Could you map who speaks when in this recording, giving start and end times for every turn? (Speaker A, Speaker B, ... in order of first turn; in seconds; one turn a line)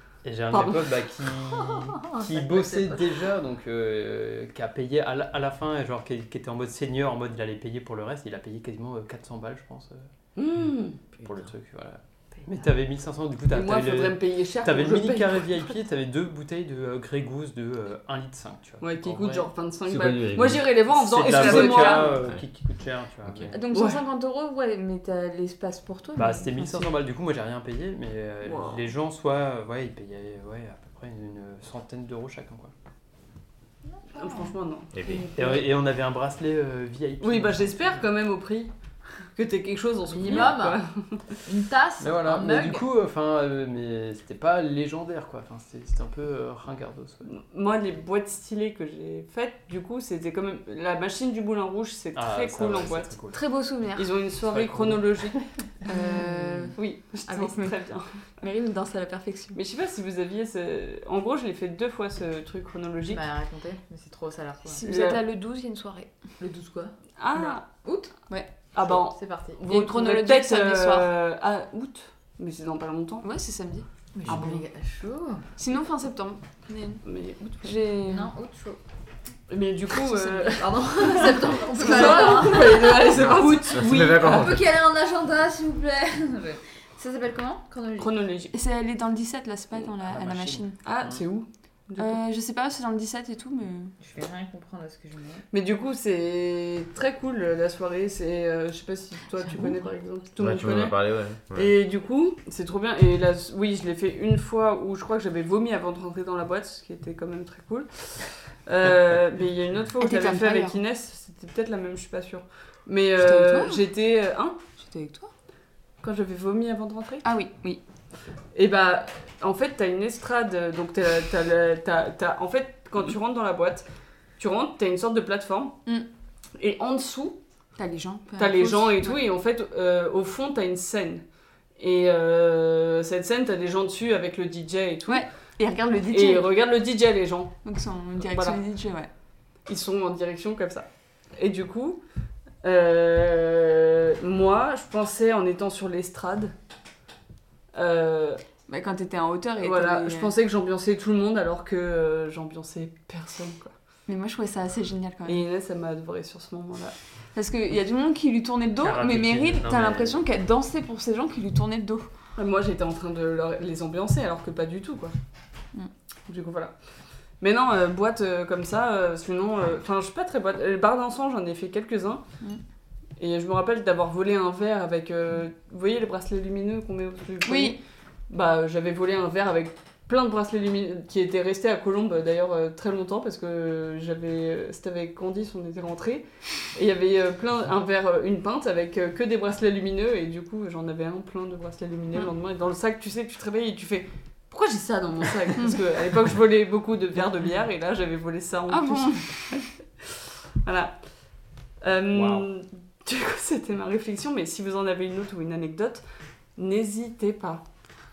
Speaker A: 0.2-10.1
Speaker B: 0.5-0.9
Speaker C: 1.7-3.1
Speaker B: 10.4-11.0
Speaker A: 11.2-19.5
Speaker B: 13.5-15.7
Speaker B: 18.8-22.2
Speaker D: 19.9-20.7
Speaker A: 20.9-23.6
Speaker E: 21.3-22.1
Speaker D: 23.2-23.5
Speaker E: 23.5-26.9
Speaker B: 23.7-24.0
Speaker A: 26.2-32.7
Speaker B: 28.4-28.9
Speaker C: 33.9-34.5
Speaker B: 34.2-34.9
Speaker D: 34.9-35.3
Speaker E: 35.0-35.6
Speaker A: 35.4-38.0
Speaker B: 37.2-38.7
Speaker B: 39.4-41.2
Speaker C: 40.1-40.8
Speaker C: 41.5-42.9
Speaker A: 42.0-47.3
Speaker B: 47.2-53.1
Speaker A: 52.1-53.4
Speaker E: 53.3-54.1
Speaker B: 54.0-55.4
Speaker A: 54.5-55.4
Speaker E: 55.9-57.8
Speaker C: 55.9-56.7
Speaker B: 56.7-58.2
Speaker E: 58.4-59.6
Speaker B: 59.5-63.2
Speaker C: 63.1-64.8
Speaker E: 64.7-66.1
Speaker B: 64.8-65.2
Speaker C: 66.4-66.9
Speaker B: 67.2-67.7
Speaker C: 67.8-68.1
Speaker B: 68.7-73.3
Speaker C: 68.9-69.6
Speaker E: 69.7-71.1
Speaker E: 73.2-73.9
Speaker C: 74.2-75.4
Speaker B: 74.3-74.6
Speaker E: 75.6-77.0
Speaker B: 77.0-77.8
Speaker E: 77.6-78.3
Speaker C: 78.0-78.8
Speaker B: 79.5-84.5
Speaker C: 79.9-88.1
Speaker E: 81.7-83.9
Speaker D: 83.1-84.7
Speaker B: 88.0-88.5
Speaker E: 88.5-90.8
Speaker A: 90.0-91.2
Speaker B: 90.8-92.2
Speaker E: 92.0-94.0
Speaker C: 94.0-95.5
Speaker B: 95.5-101.0
Speaker D: 100.4-101.7
Speaker B: 101.5-114.6
Speaker E: 110.0-110.8
Speaker E: 113.2-113.8
Speaker E: 114.8-115.3
Speaker B: 116.0-117.3
Speaker E: 117.2-117.8
Speaker B: 118.5-123.9
Speaker B: 124.4-125.8
Speaker B: 126.6-127.4
Speaker E: 127.8-129.2
Speaker B: 128.4-131.2
Speaker B: 131.8-135.2
Speaker E: 135.1-136.5
Speaker B: 136.1-137.5
Speaker E: 137.6-139.1
Speaker B: 138.2-138.6
Speaker B: 139.7-142.0
Speaker B: 142.6-146.5
Speaker B: 147.7-148.4
Speaker E: 148.7-150.3
Speaker B: 149.6-153.8
Speaker E: 154.1-155.4
Speaker B: 155.3-156.9
Speaker E: 157.3-162.1
Speaker A: 158.8-160.2
Speaker B: 162.4-165.1
Speaker B: 166.3-166.8
Speaker B: 167.4-172.2
Speaker B: 173.2-177.8
Speaker E: 177.4-177.8
Speaker B: 178.3-199.6
Speaker E: 198.7-199.6
Speaker B: 200.7-200.9
Speaker B: 201.8-206.0
Speaker A: 202.1-202.5
Speaker B: 206.6-207.6